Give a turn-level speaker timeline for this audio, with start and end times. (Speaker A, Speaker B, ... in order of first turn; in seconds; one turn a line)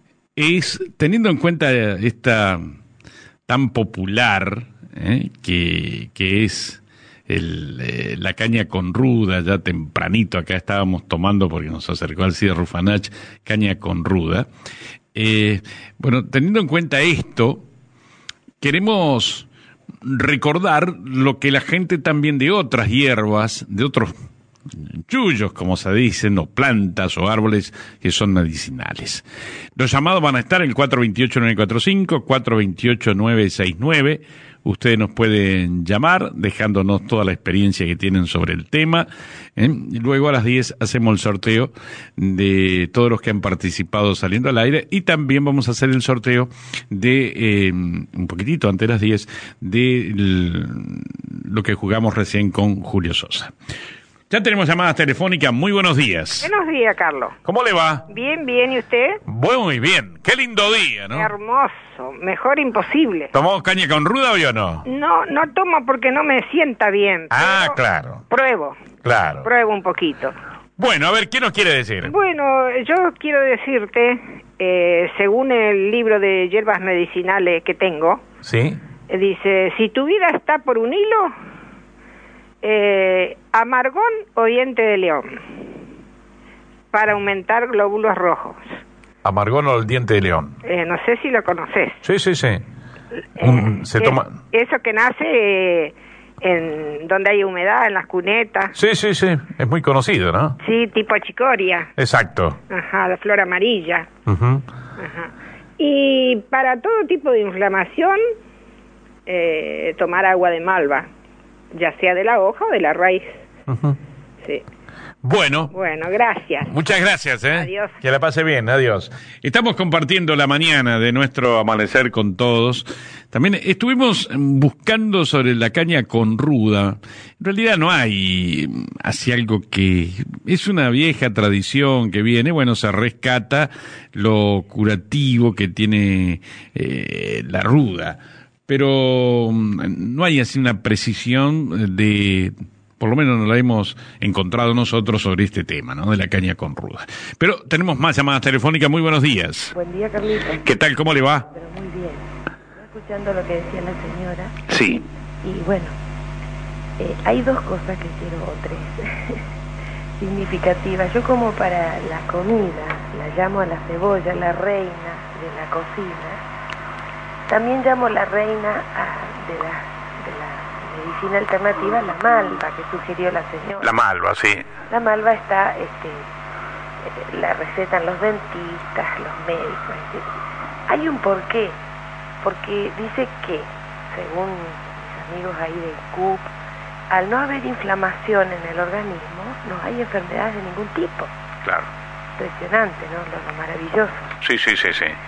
Speaker A: 0.4-2.7
Speaker A: 3.5-14.5
Speaker A: 15.1-17.6
Speaker A: 18.6-19.5
Speaker A: 20.0-24.1
Speaker A: 25.1-29.2
Speaker A: 29.8-53.5
Speaker A: 54.3-56.5
Speaker B: 56.4-57.4
Speaker A: 57.4-58.0
Speaker B: 58.1-59.2
Speaker A: 59.3-61.3
Speaker B: 61.1-63.3
Speaker A: 63.3-64.8
Speaker B: 64.9-67.8
Speaker A: 67.3-68.2
Speaker B: 68.3-68.8
Speaker A: 69.0-69.5
Speaker B: 69.4-70.3
Speaker A: 70.8-72.1
Speaker B: 72.0-78.2
Speaker A: 78.4-78.8
Speaker B: 79.1-81.3
Speaker B: 82.6-85.4
Speaker B: 86.9-88.8
Speaker A: 89.2-90.5
Speaker B: 90.6-92.0
Speaker A: 92.0-92.6
Speaker B: 93.4-98.7
Speaker A: 93.4-94.4
Speaker A: 98.7-100.6
Speaker B: 100.6-101.9
Speaker A: 102.0-102.6
Speaker B: 102.7-104.1
Speaker A: 104.3-104.6
Speaker B: 105.0-108.2
Speaker B: 109.3-111.1
Speaker B: 111.7-113.4
Speaker A: 113.7-114.0
Speaker A: 115.2-115.7
Speaker B: 115.7-116.7
Speaker A: 116.7-149.7
Speaker B: 117.5-118.0
Speaker C: 149.7-150.7
Speaker A: 150.6-151.5
Speaker C: 151.5-154.6
Speaker A: 154.7-155.0
Speaker C: 155.4-156.0
Speaker C: 157.0-159.4
Speaker C: 160.2-166.4
Speaker C: 167.5-173.9
Speaker A: 173.8-174.7
Speaker C: 174.9-176.3
Speaker C: 177.0-180.3
Speaker C: 180.9-181.8
Speaker C: 182.4-186.5
Speaker C: 187.1-191.3
Speaker C: 192.4-194.3
Speaker A: 194.4-195.2